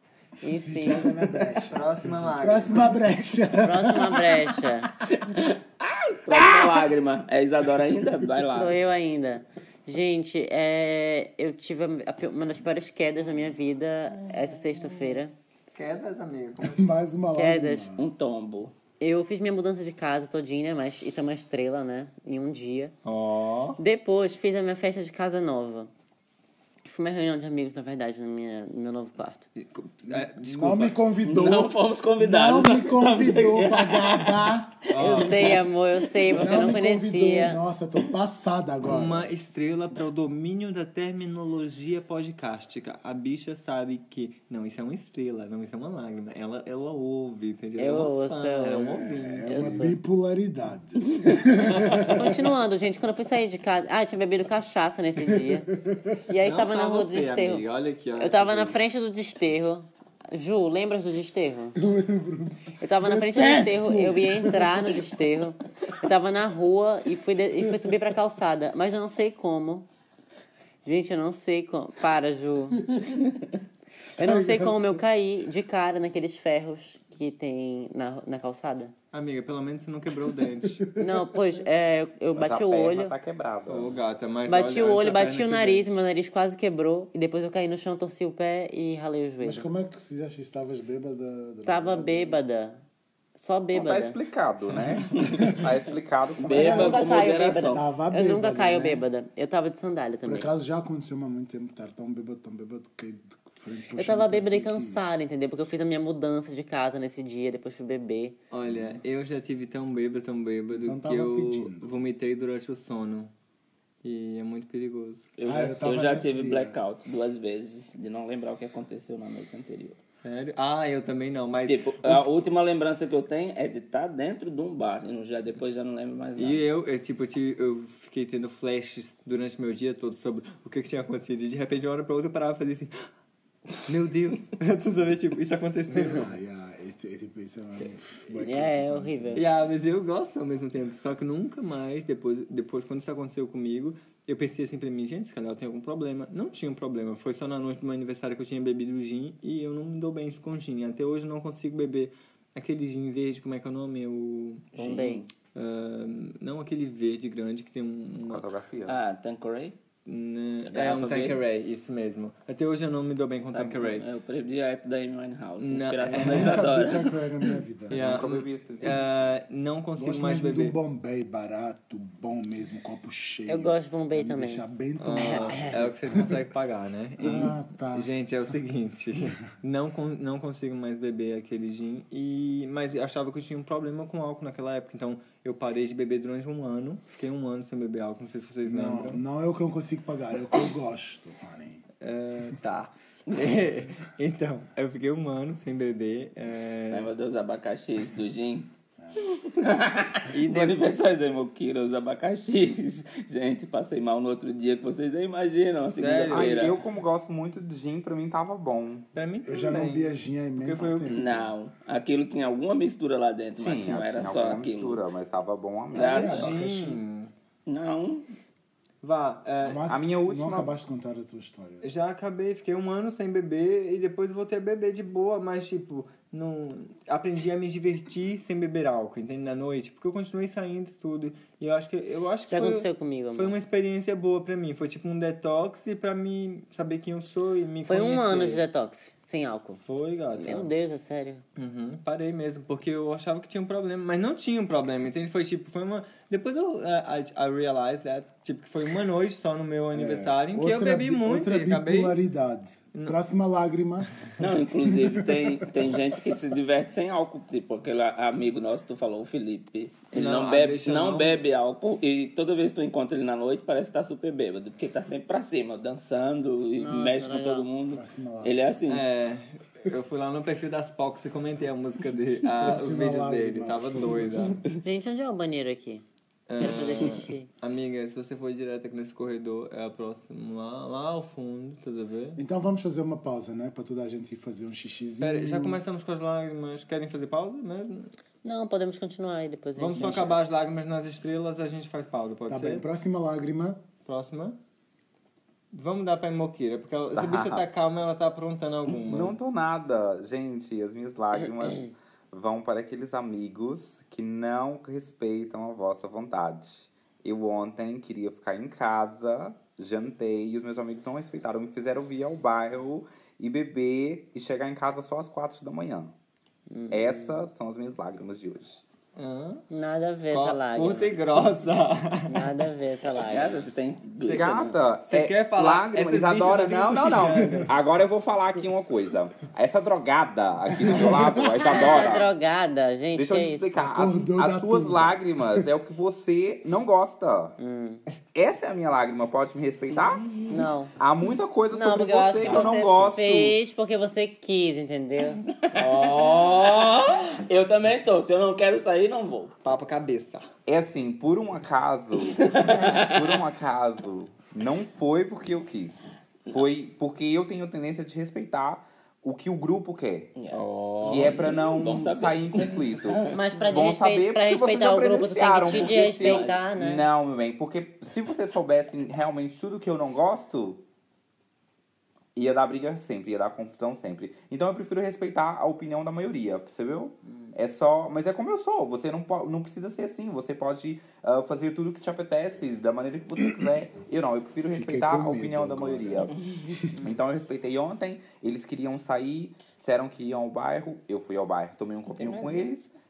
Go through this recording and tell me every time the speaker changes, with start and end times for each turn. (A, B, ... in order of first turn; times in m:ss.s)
0:00.4-0:01.2 A
0:00.5-0:04.5 B
0:01.7-0:03.0 C
0:03.6-0:04.9 A
0:05.1-0:08.8 D
0:08.5-0:15.3 A
0:14.4-0:15.2 B
0:15.7-0:16.8 C
0:16.6-0:18.0 B
0:17.4-0:17.9 A
0:18.0-0:18.7 D
0:19.0-0:22.9 A
0:23.0-0:23.8 C
0:23.8-0:25.9 A
0:26.8-0:29.5 A
0:29.6-0:31.0 C
0:30.1-0:34.8 B
0:31.2-0:35.6 D
0:34.9-0:35.5 C
0:35.0-0:37.6 A
0:36.3-0:39.3 B
0:38.8-0:49.9 C
0:47.8-0:50.0 A
0:49.0-0:52.5 B
0:51.7-0:52.2 C
0:52.1-0:55.7 A
0:55.2-0:56.2 B
0:56.3-0:57.6 A
0:56.4-0:58.8 C
0:58.2-1:01.8 A
1:01.8-1:05.2 B
1:02.8-1:09.9 A
1:10.8-1:12.8 A
1:14.2-1:18.9 A
1:14.2-1:14.8 B
1:19.1-1:20.9 C
1:20.7-1:21.2 B
1:21.0-1:23.2 A
1:22.3-1:23.9 E
1:23.7-1:26.0 C
1:24.5-1:29.6 A
1:29.4-1:32.4 B
1:31.7-1:32.8 A
1:33.4-1:34.2 A
1:33.7-1:37.1 E
1:36.4-1:37.8 D
1:36.5-1:40.5 A
1:36.6-1:37.1 B
1:37.7-1:39.0 B
1:40.2-1:45.0 B
1:44.0-1:48.4 A
1:48.5-1:53.3 C
1:50.7-1:52.0 B
1:54.0-1:55.3 C
1:55.4-2:00.0 D
1:55.4-1:56.8 B
2:00.2-2:02.3 C
2:01.7-2:06.6 D
2:06.4-2:12.9 C
2:13.8-2:16.3 C
2:15.9-2:19.4 B
2:18.4-2:19.4 A
2:19.3-2:34.8 C
2:34.8-2:35.3 D
2:34.8-2:35.3 A
2:35.5-2:38.4 C
2:38.3-2:39.0 E
2:38.9-2:39.8 D
2:40.1-2:44.1 C
2:40.7-2:41.4 D
2:43.5-2:47.1 D
2:45.6-2:46.7 C
2:46.1-2:48.3 B
2:47.9-2:50.8 C
2:48.0-2:49.1 E
2:50.0-2:56.4 B
2:53.5-2:55.8 A
2:55.0-3:09.2 C
2:57.2-2:58.1 B
3:08.7-3:11.8 B
3:12.0-3:17.1 C
3:16.9-3:26.8 D
3:20.3-3:20.9 C
3:25.9-3:26.7 C
3:26.3-3:29.1 E
3:29.2-3:31.2 C
3:29.5-3:31.5 B
3:31.1-3:35.0 D
3:33.6-3:36.5 E
3:36.0-3:36.5 D
3:36.0-3:37.3 C
3:36.0-3:37.0 B
3:37.7-3:38.3 D
3:39.0-3:39.8 C
3:39.6-3:41.8 B
3:39.9-3:40.7 E
3:41.8-3:58.6 C
3:52.5-3:53.6 A
3:57.9-3:59.8 A
3:59.8-4:00.7 C
4:00.3-4:01.4 A
4:01.6-4:12.2 C
4:09.9-4:14.1 B
4:14.4-4:29.1 D
4:14.8-4:15.8 B
4:20.1-4:21.4 C
4:26.8-4:27.7 A
4:27.9-4:28.6 B
4:28.9-4:34.6 C
4:32.5-4:34.6 B
4:34.8-4:36.0 A
4:36.5-4:42.4 C
4:36.6-4:37.5 A
4:42.4-4:45.8 B
4:45.2-4:48.1 C
4:48.4-4:50.3 A
4:49.8-4:52.8 C
4:52.5-4:53.8 B
4:54.0-4:54.6 C
4:55.7-4:59.4 C
4:57.2-4:57.6 E
4:59.1-5:16.1 E
5:01.4-5:01.9 A
5:16.7-5:17.4 A
5:16.9-5:18.8 E
5:19.2-5:19.7 C
5:19.7-5:21.2 A
5:20.3-5:22.4 C
5:22.3-5:23.6 A
5:23.2-5:24.8 D
5:24.2-5:32.3 E
5:25.1-5:27.7 C
5:27.3-5:27.7 B
5:30.8-5:31.7 B
5:31.6-5:33.8 A
5:33.2-5:37.6 E
5:33.8-5:35.7 B
5:37.6-5:38.0 A
5:38.3-5:40.4 E
5:40.5-5:41.0 A
5:41.0-5:43.6 E
5:41.6-5:45.4 A
5:45.4-5:49.6 D
5:45.7-5:47.3 C
5:49.6-5:50.4 C
5:50.7-6:00.3 E
5:52.2-5:53.4 D
6:00.5-6:01.5 C
6:01.0-6:10.8 E
6:01.1-6:03.3 D
6:03.3-6:07.1 A
6:05.7-6:06.6 D
6:12.4-6:26.4 E
6:17.3-6:17.5 A
6:24.7-6:26.9 B
6:27.0-6:32.9 E
6:32.1-6:32.6 D